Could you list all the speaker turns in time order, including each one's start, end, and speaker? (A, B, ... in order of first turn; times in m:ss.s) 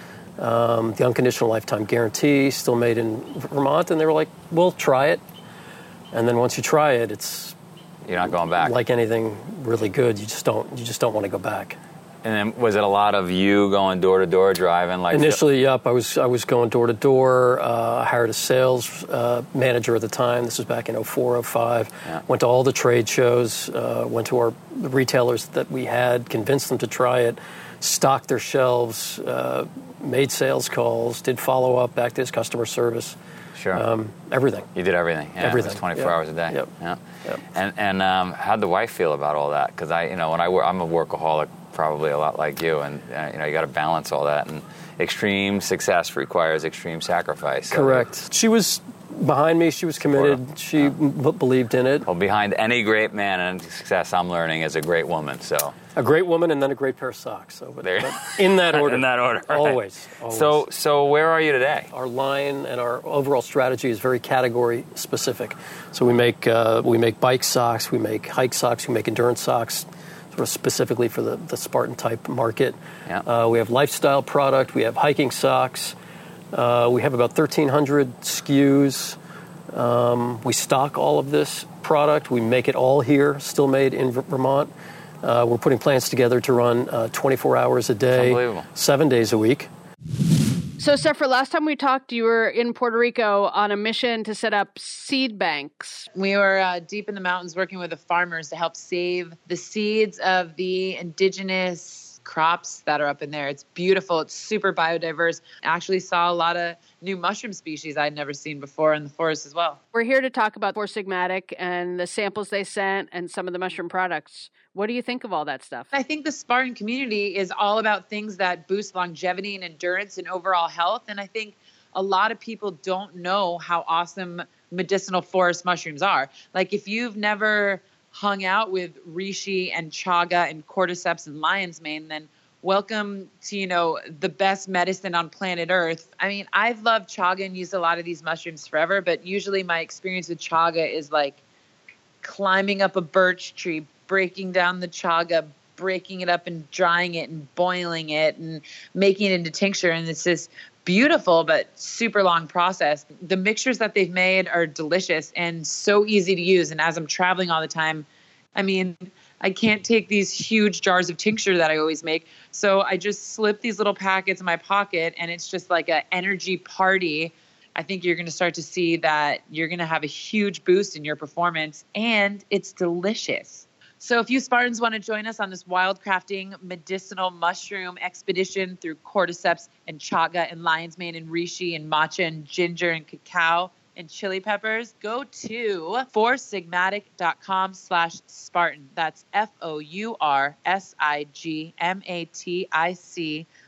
0:00.4-0:05.2 A
0:06.1-0:07.6 A
0:08.1-0:08.8 B
0:08.6-0:11.8 A
0:12.2-0:15.4 B
0:15.1-0:33.2 A
0:33.6-0:33.8 B
0:33.7-0:34.7 A
0:34.8-0:37.0 B
0:35.4-0:36.7 A
0:37.5-0:48.1 B
0:47.7-0:52.1 A
0:50.0-0:50.9 B
0:52.1-0:55.7 B
0:56.0-1:00.6 A
0:57.8-1:01.9 B
1:01.9-1:16.0 A
1:16.5-1:19.2 A
1:19.7-1:24.7 A
1:25.2-1:29.7 A
1:28.1-1:28.7 B
1:30.8-1:36.1 C
1:36.1-1:49.8 D
1:49.9-1:55.9 C
1:55.9-2:21.4 D
2:22.2-3:13.5 D